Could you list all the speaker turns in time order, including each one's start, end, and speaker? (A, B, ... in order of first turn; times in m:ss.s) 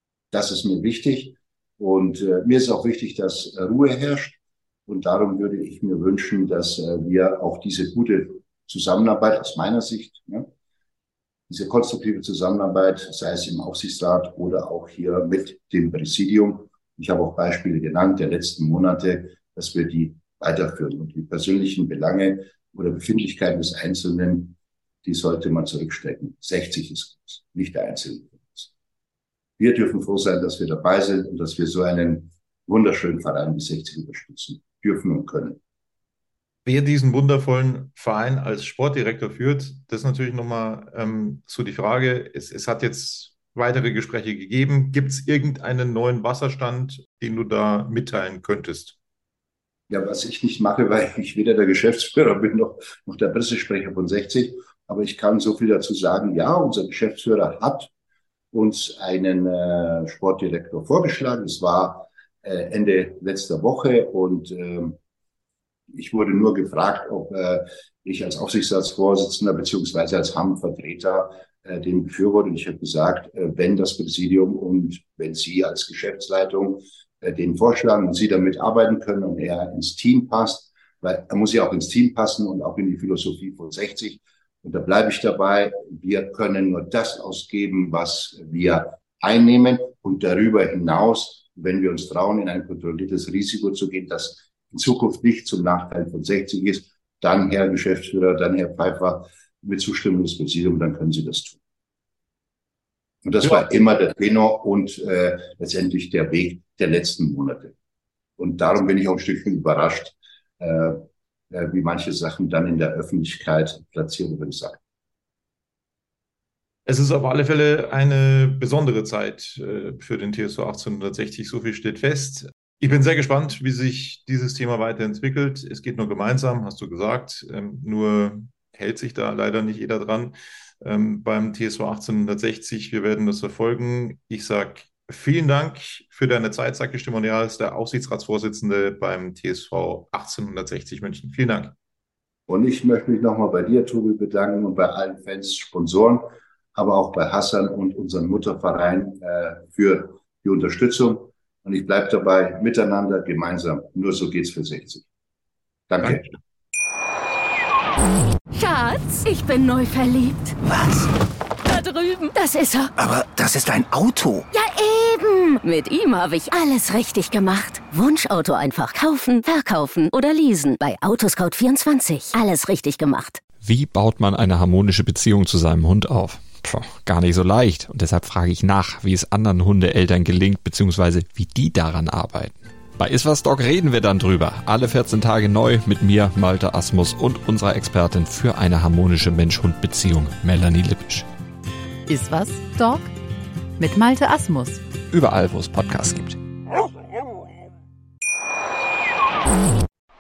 0:00.3-0:10.5 A
0:11.5-0:28.7 A
0:29.6-0:35.6 A
0:36.6-0:49.0 B
0:49.9-0:57.9 A
0:58.5-1:05.0 A
1:05.9-1:41.6 A
1:43.2-1:47.7 A
1:48.4-1:54.8 A
1:56.8-2:21.7 B
2:22.5-2:35.0 A
2:35.9-2:36.4 A
2:38.5-2:40.6 C
2:40.6-2:41.1 D
2:41.6-2:42.9 C
2:43.0-2:44.5 D
2:44.5-2:53.4 C
2:53.6-3:11.3 E
3:12.1-3:13.1 F
3:13.8-3:14.8 F
3:15.1-3:16.4 E